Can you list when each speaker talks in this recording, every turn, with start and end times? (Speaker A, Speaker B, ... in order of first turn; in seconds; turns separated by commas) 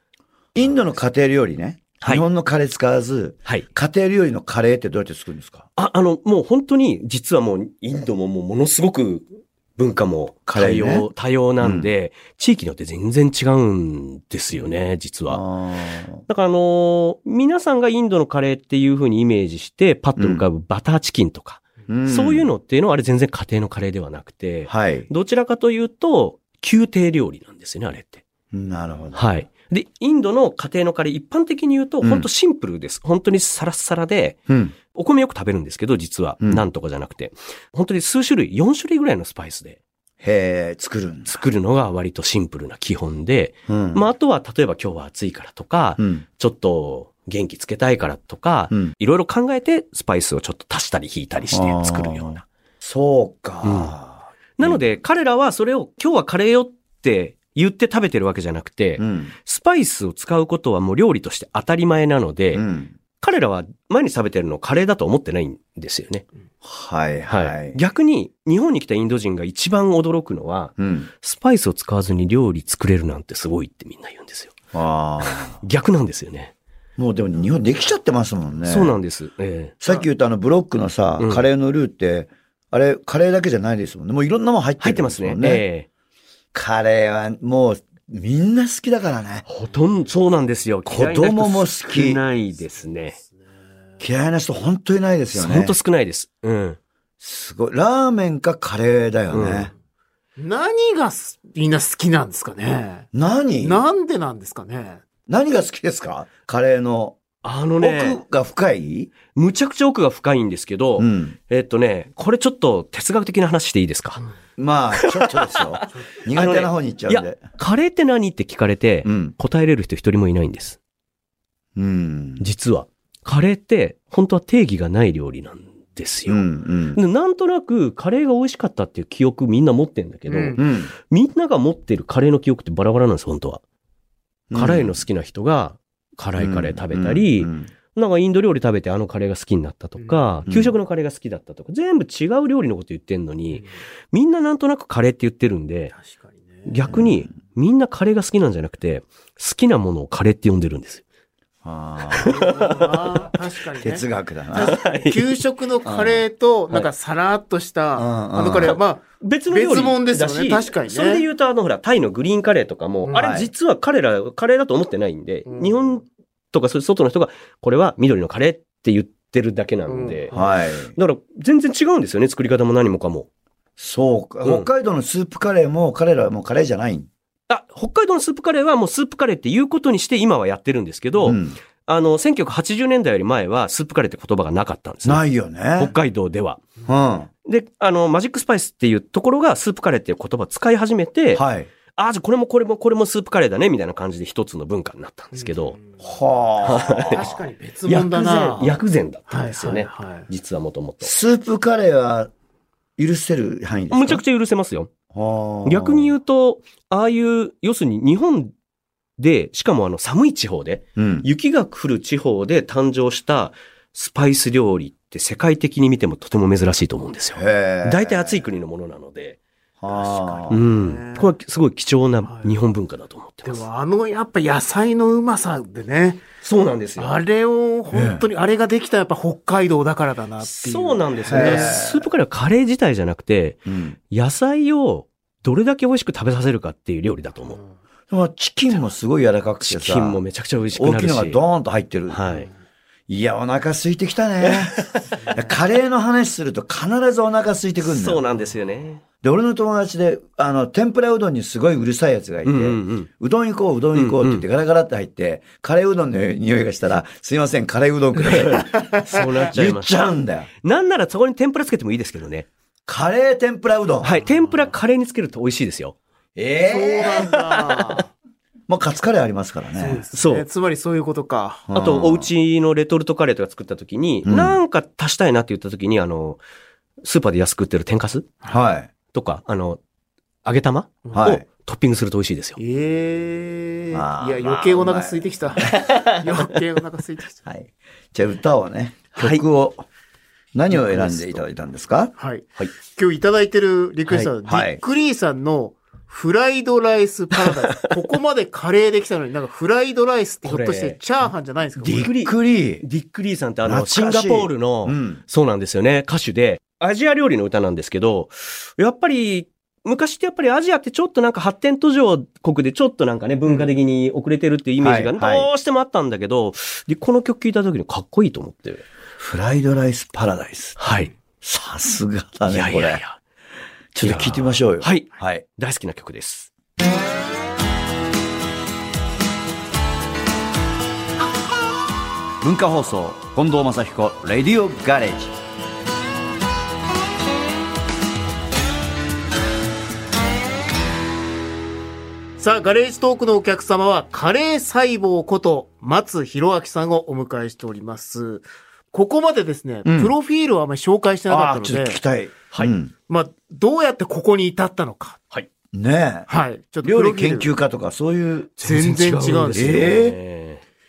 Speaker A: 0.5-5.7, Speaker B: 5.8-15.4, Speaker A: 10.5-11.1, Speaker A: 11.6-11.9, Speaker A: 15.3-16.2, Speaker B: 16.2-28.2, Speaker A: 20.2-20.4, Speaker A: 21.9-22.5, Speaker A: 24.7-25.1, Speaker A: 28.5-29.2, Speaker B: 29.1-34.4, Speaker A: 32.0-32.3, Speaker A: 34.5-34.7, Speaker B: 34.9-39.8, Speaker A: 40.2-41.4, Speaker B: 41.3-52.4, Speaker A: 43.7-44.0, Speaker A: 46.0-46.2, Speaker A: 51.5-54.8, Speaker B: 53.6-53.9, Speaker B: 54.6-62.6, Speaker A: 59.0-59.3, Speaker A: 62.5-63.0, Speaker B: 63.2-66.2, Speaker A: 66.6-67.8, Speaker B: 67.3-74.6, Speaker A: 70.8-71.1, Speaker A: 74.7-75.6, Speaker B: 75.2-76.5, Speaker A: 77.0-79.0, Speaker B: 78.7-79.8, Speaker A: 79.8-85.6, Speaker B: 81.2-81.4, Speaker B: 84.8-85.9, Speaker A: 86.5-89.4, Speaker B: 89.5-93.2, Speaker A: 90.8-92.2, Speaker A: 94.0-95.8, Speaker B: 95.3-96.8, Speaker A: 97.2-99.7, Speaker B: 99.3-99.7, Speaker C: 100.4-103.1, Speaker A: 103.1-103.8, Speaker C: 103.6-105.0, Speaker A: 105.3-107.2, Speaker B: 107.4-108.2, Speaker A: 107.8-109.1, Speaker B: 109.3-114.2, Speaker A: 111.0-111.3, Speaker A: 114.6-117.4, Speaker B: 114.9-120.8, Speaker A: 119.0-119.3, Speaker A: 121.8-122.5, Speaker B: 122.4-133.6, Speaker A: 126.3-127.0, Speaker C: 130.3-130.6, Speaker A: 130.6-130.9, Speaker A: 134.5-135.0, Speaker B: 134.5-145.9, Speaker A: 136.4-137.7, Speaker C: 140.0-140.4, Speaker A: 140.5-140.8, Speaker C: 145.9-146.7, Speaker B: 146.7-151.0, Speaker A: 146.9-147.2, Speaker A: 151.6-152.4, Speaker B: 152.2-153.2, Speaker C: 152.2-161.2, Speaker A: 153.8-154.7, Speaker B: 154.6-155.4, Speaker A: 155.8-156.2, Speaker A: 157.9-158.8, Speaker B: 158.6-170.4, Speaker C: 163.1-163.3, Speaker A: 163.1-163.5, Speaker C: 165.5-165.8, Speaker C: 169.9-170.5, Speaker A: 170.3-170.9, Speaker B: 170.9-173.3, Speaker A: 173.8-177.1, Speaker B: 177.5-185.2, Speaker A: 181.2-181.6, Speaker A: 185.0-185.9, Speaker B: 185.8-186.7, Speaker A: 186.8-187.3, Speaker B: 187.4-195.8, Speaker A: 191.3-191.7, Speaker C: 195.3-196.0, Speaker A: 196.0-197.3, Speaker B: 196.6-197.3, Speaker C: 197.1-198.8, Speaker B: 197.8-201.1, Speaker C: 199.3-200.3, Speaker A: 201.0-202.3, Speaker A: 203.0-204.2, Speaker B: 203.9-204.9, Speaker A: 205.1-206.1, Speaker B: 205.6-208.5, Speaker B: 209.2-219.4, Speaker A: 211.0-211.3, Speaker A: 217.3-218.4, Speaker A: 219.8-220.6, Speaker C: 219.9-221.3, Speaker B: 220.5-223.6, Speaker C: 222.2-222.6, Speaker C: 223.4-226.2, Speaker B: 226.4-227.2, Speaker C: 227.0-231.8, Speaker A: 227.9-228.2, Speaker B: 230.4-237.6, Speaker A: 231.3-232.1, Speaker A: 233.7-234.0, Speaker A: 238.1-240.2, Speaker B: 239.6-241.4, Speaker A: 240.7-242.2, Speaker B: 242.1-242.5, Speaker A: 243.1-248.2, Speaker B: 244.4-245.2, Speaker C: 245.2-245.5, Speaker B: 247.8-249.0, Speaker A: 249.2-260.5, Speaker B: 252.4-253.1, Speaker B: 253.9-254.4, Speaker B: 258.3-260.0, Speaker B: 260.6-262.5, Speaker A: 262.9-264.2, Speaker B: 264.0-266.0, Speaker A: 266.4-267.3, Speaker C: 266.6-268.1, Speaker B: 267.3-267.8, Speaker A: 268.7-270.0, Speaker C: 269.8-271.7, Speaker B: 270.1-270.5, Speaker A: 271.7-272.3, Speaker B: 271.7-276.4, Speaker A: 274.2-274.6, Speaker B: 277.0-278.3, Speaker A: 278.5-278.9, Speaker B: 279.1-279.8, Speaker B: 280.4-282.6, Speaker C: 281.0-281.3, Speaker A: 281.1-281.4, Speaker C: 282.6-287.4, Speaker A: 283.9-285.8, Speaker B: 285.7-286.2, Speaker A: 287.4-289.9, Speaker B: 289.2-289.4, Speaker A: 290.5-292.1, Speaker B: 290.7-291.3, Speaker C: 292.2-302.1, Speaker A: 294.4-294.8, Speaker B: 297.4-297.9, Speaker B: 300.4-301.0, Speaker A: 301.8-302.8, Speaker B: 301.8-318.8, Speaker A: 303.6-305.2, Speaker A: 314.8-315.5, Speaker A: 319.2-320.8, Speaker B: 320.8-321.1, Speaker A: 321.4-323.0, Speaker B: 322.5-323.2, Speaker A: 323.9-325.4, Speaker B: 324.0-326.5, Speaker A: 332.4-335.3, Speaker C: 342.4-352.0, Speaker A: 349.8-350.1, Speaker A: 351.3-352.9, Speaker C: 353.1-355.2, Speaker A: 355.7-356.3, Speaker C: 356.3-357.5, Speaker A: 356.8-358.6, Speaker C: 358.6-360.0, Speaker B: 358.6-360.6, Speaker A: 359.5-360.2